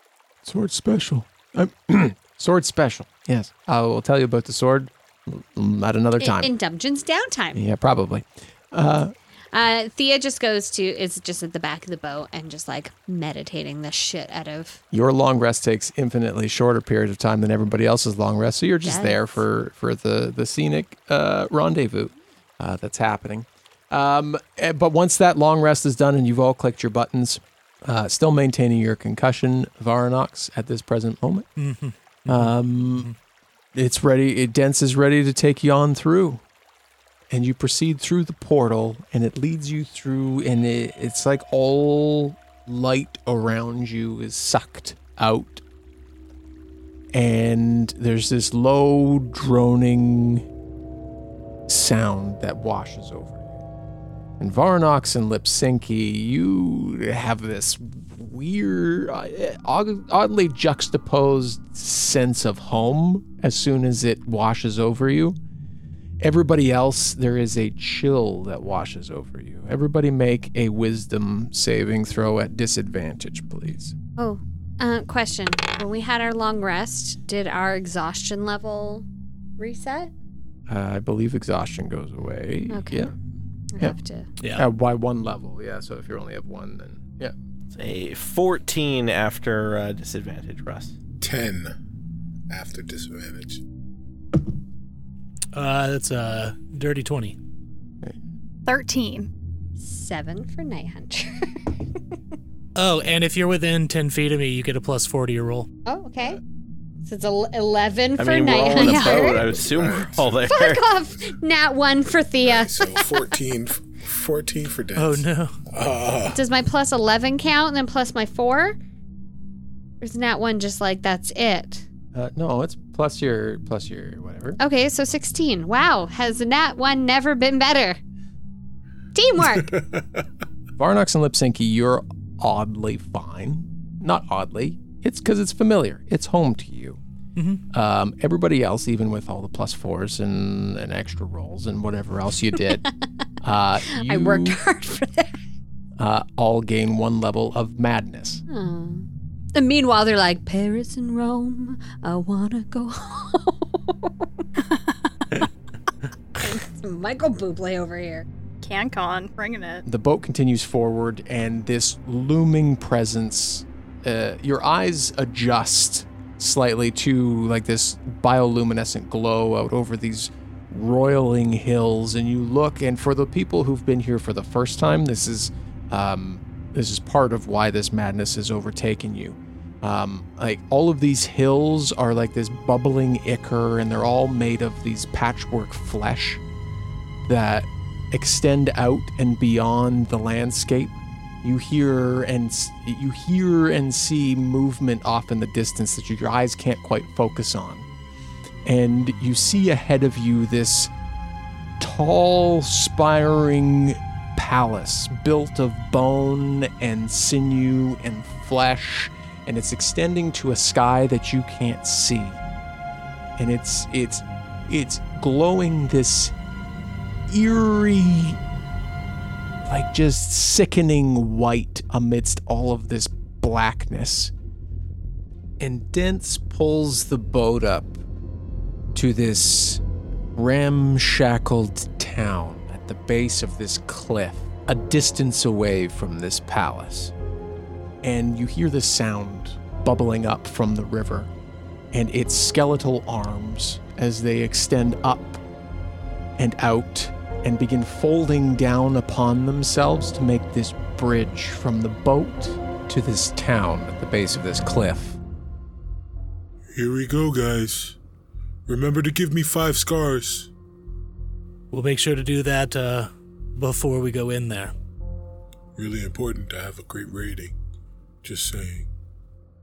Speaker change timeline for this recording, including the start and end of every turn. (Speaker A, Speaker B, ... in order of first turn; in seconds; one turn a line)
Speaker A: 0.4-6.5
Speaker B: 6.2-7.6
Speaker A: 7.5-9.1
Speaker B: 9.5-14.8
Speaker A: 14.9-31.5
Speaker B: 18.8-19.4
Speaker C: 31.6-33.1
Speaker A: 32.3-33.1
Speaker A: 33.7-36.4
Speaker A: 37.3-45.6
Speaker A: 47.1-50.5
Speaker A: 51.7-53.4
Speaker A: 54.4-65.4
Speaker A: 66.2-73.9
Speaker B: 74.2-79.0
Speaker B: 79.6-80.1
Speaker A: 80.7-83.1
Speaker B: 82.7-83.1
Speaker B: 83.7-84.2
Speaker A: 84.5-87.3
Speaker D: 87.7-90.9
Speaker E: 91.2-91.7
Speaker E: 92.5-93.6
Speaker C: 95.5-97.4
Speaker F: 98.7-99.3
Speaker B: 99.8-101.5
Speaker C: 102.8-105.7
Speaker B: 105.8-106.4
Speaker B: 107.0-109.5
Speaker D: 108.2-110.8
Speaker F: 108.8-109.3
Speaker E: 109.7-110.1
Speaker B: 110.5-113.2
Speaker E: 112.4-116.4
Speaker C: 115.0-115.5
Speaker B: 116.3-118.8
Speaker B: 120.0-121.8
Speaker A: 122.1-124.6
Speaker B: 124.6-128.0
Speaker B: 129.1-129.8
Speaker A: 130.8-137.0
Speaker C: 137.3-137.6
Speaker A: 137.7-142.8
Speaker A: 143.4-144.6
Speaker B: 143.8-145.3
Speaker A: 146.0-148.4
Speaker B: 148.5-154.3
Speaker B: 156.4-158.2
Speaker F: 158.6-159.8
Speaker A: 159.8-186.4
Speaker A: 187.2-197.8
Speaker A: 198.6-200.9
Speaker A: 201.8-212.4
Speaker A: 213.4-216.3
Speaker A: 217.3-218.4
Speaker A: 219.6-224.3
Speaker A: 225.6-228.0
Speaker A: 228.9-229.8
Speaker A: 230.3-237.1
Speaker A: 238.0-241.3
Speaker A: 241.9-245.4
Speaker A: 246.4-255.2
Speaker G: 256.7-258.0
Speaker G: 258.7-260.5
Speaker C: 261.7-264.7
Speaker G: 265.8-267.5
Speaker G: 268.2-268.9